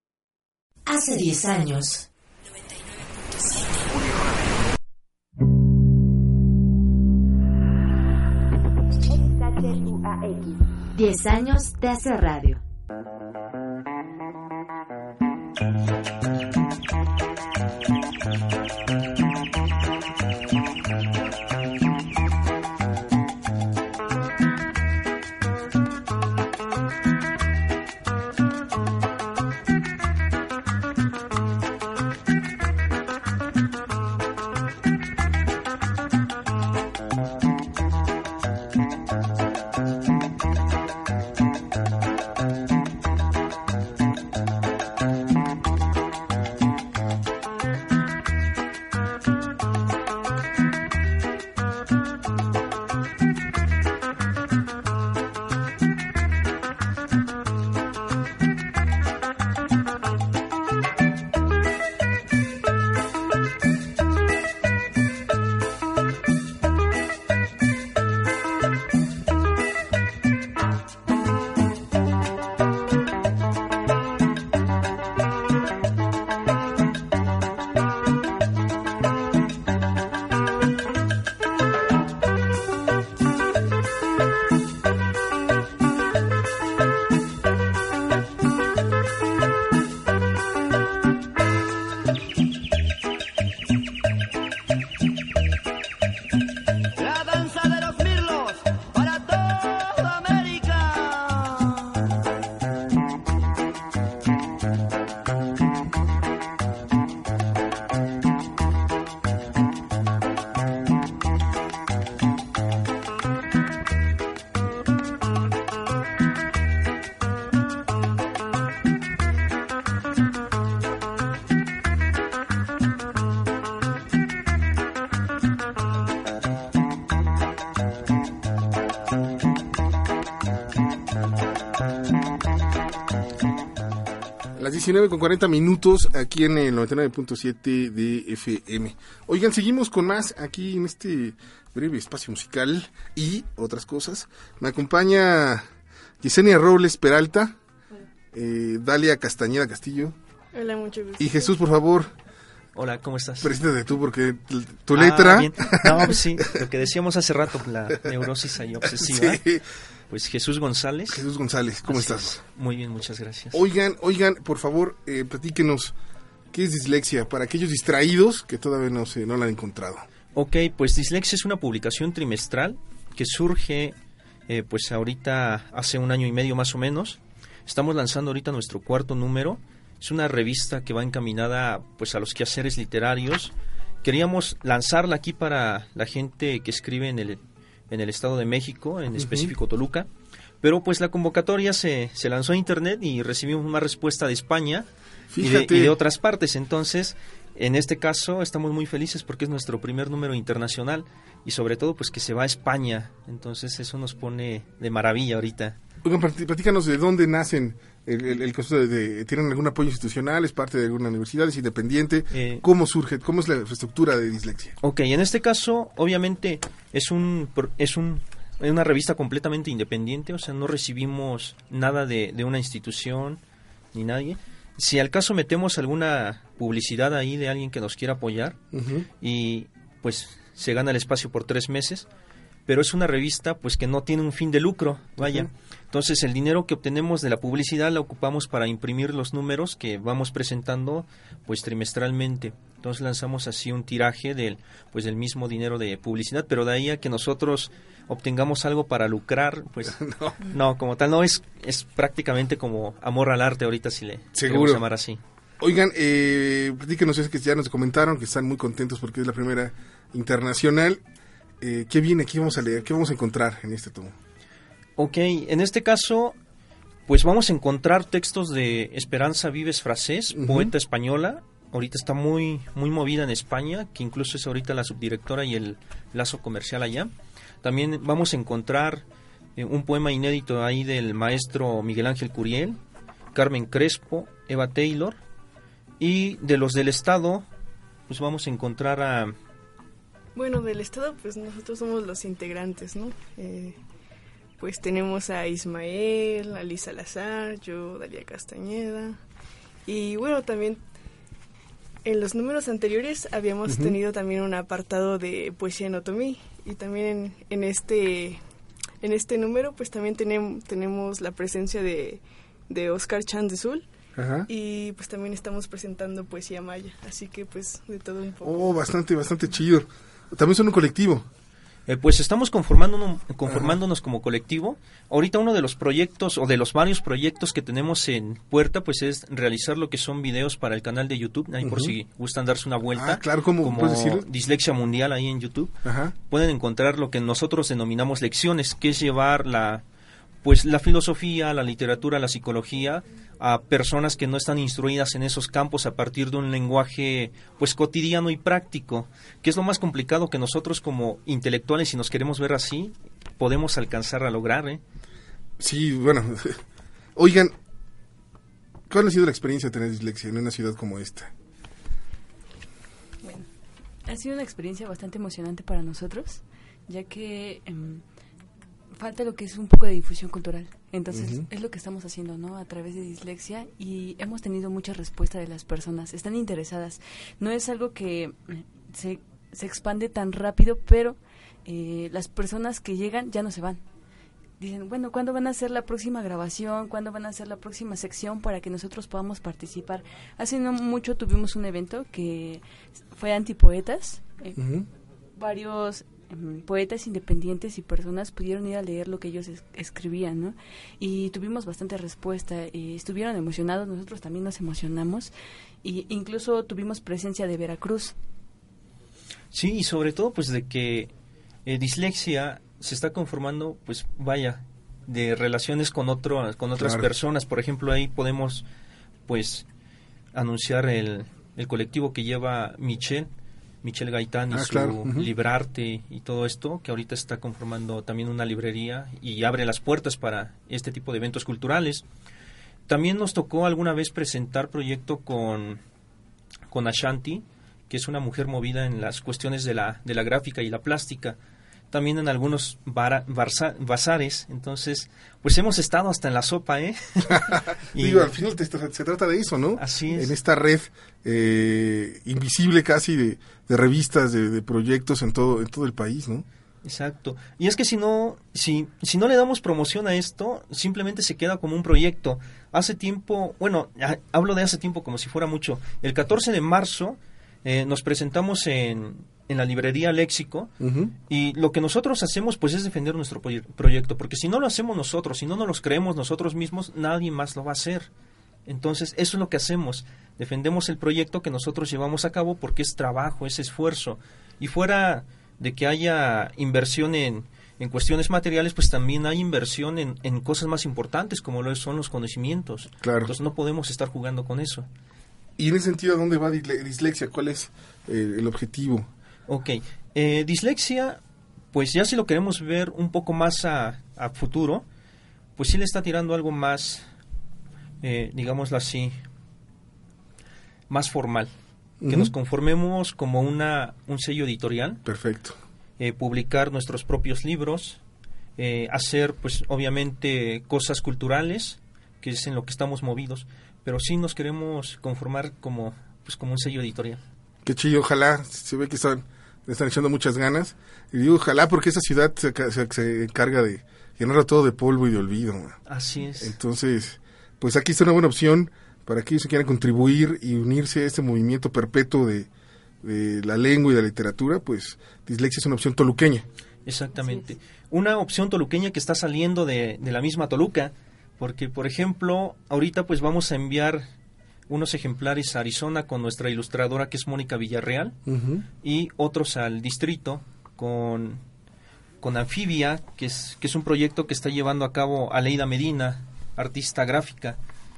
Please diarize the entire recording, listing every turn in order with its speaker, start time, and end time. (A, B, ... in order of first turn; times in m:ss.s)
0:00.9-0:02.0 A
0:10.9-0:12.6 A
2:14.6-2:25.6 B
2:26.2-2:27.6 B
2:28.3-2:30.2 B
2:30.5-2:31.5 C
2:31.2-2:32.1 B
2:32.7-2:33.6 D
2:33.4-2:36.4 B
2:34.9-2:39.4 D
2:38.8-2:39.6 B
2:40.1-2:41.2 D
2:41.1-2:42.4 B
2:41.8-2:43.6 D
2:43.5-2:46.0 B
2:46.5-2:50.0 B
2:50.3-2:54.0 D
2:54.5-3:10.1 D
3:09.2-3:09.5 B
3:10.6-3:14.9 D
3:15.3-3:16.0 B
3:15.4-3:25.8 D
3:26.0-3:34.8 B
3:32.3-3:32.6 D
3:34.8-3:43.4 D
3:43.9-3:48.6 D
3:48.7-3:49.1 B
3:49.2-3:52.1 D
3:52.7-4:15.2 D
3:55.2-3:55.5 B
4:09.8-4:10.4 B
4:14.3-4:14.8 B
4:15.6-4:21.0 B
4:21.6-4:24.1 B
4:25.0-4:26.4 D
4:27.1-4:39.0 D
4:30.3-4:30.7 B
4:39.6-4:42.8 D
4:43.3-4:45.2 D
4:46.0-4:47.5 D
4:48.1-4:49.3 D
4:50.3-4:53.8 C
4:54.6-4:59.2 C
4:59.8-5:00.8 C
5:02.0-5:08.4 C
5:03.6-5:04.0 B
5:09.0-5:13.8 C
5:14.2-5:14.5 B
5:14.5-5:18.7 C
5:18.4-5:21.2 B
5:21.9-5:39.8 D
5:23.5-5:23.8 B
5:31.6-5:31.9 B
5:32.9-5:34.2 B
5:35.8-5:36.1 B
5:40.4-5:54.8 D
5:55.6-5:56.6 B
5:57.2-5:57.5 B
5:58.9-6:01.3 B
6:04.1-6:08.0 E
6:09.0-6:23.8 E
6:11.1-6:11.4 B
6:24.6-6:34.6 E
6:34.6-6:34.9 B
6:35.4-6:45.3 E
6:45.8-6:48.1 E
6:49.5-6:51.1 D
6:51.6-6:58.6 D
6:56.8-6:57.1 B
6:59.3-6:59.7 D
7:00.3-7:03.3 D
7:03.8-7:12.0 D
7:04.5-7:05.3 B
7:12.9-7:15.8 D
7:16.7-7:21.4 D
7:21.9-7:28.3 D
7:27.4-7:36.4 B
7:29.8-7:30.4 D
7:36.8-7:50.7 D
7:50.8-7:51.1 B
7:51.3-7:58.1 D
7:58.6-8:14.9 D
8:13.0-8:13.3 B
8:15.6-8:19.1 B
8:19.5-8:21.2 D
8:21.7-8:24.8 D
8:25.6-8:27.0 D
8:28.0-8:29.2 D
8:30.9-8:31.5 D
8:32.0-8:32.3 B
8:32.0-8:35.0 D
8:35.0-8:35.6 B
8:36.0-8:38.0 D
8:38.6-8:47.2 D
8:47.6-8:55.8 B
8:55.9-8:56.6 D
8:56.4-9:02.5 B
9:03.0-9:06.5 B
9:06.8-9:14.1 D
9:14.7-9:18.2 D
9:18.3-9:18.6 B
9:18.8-9:21.4 D
9:22.2-9:27.6 D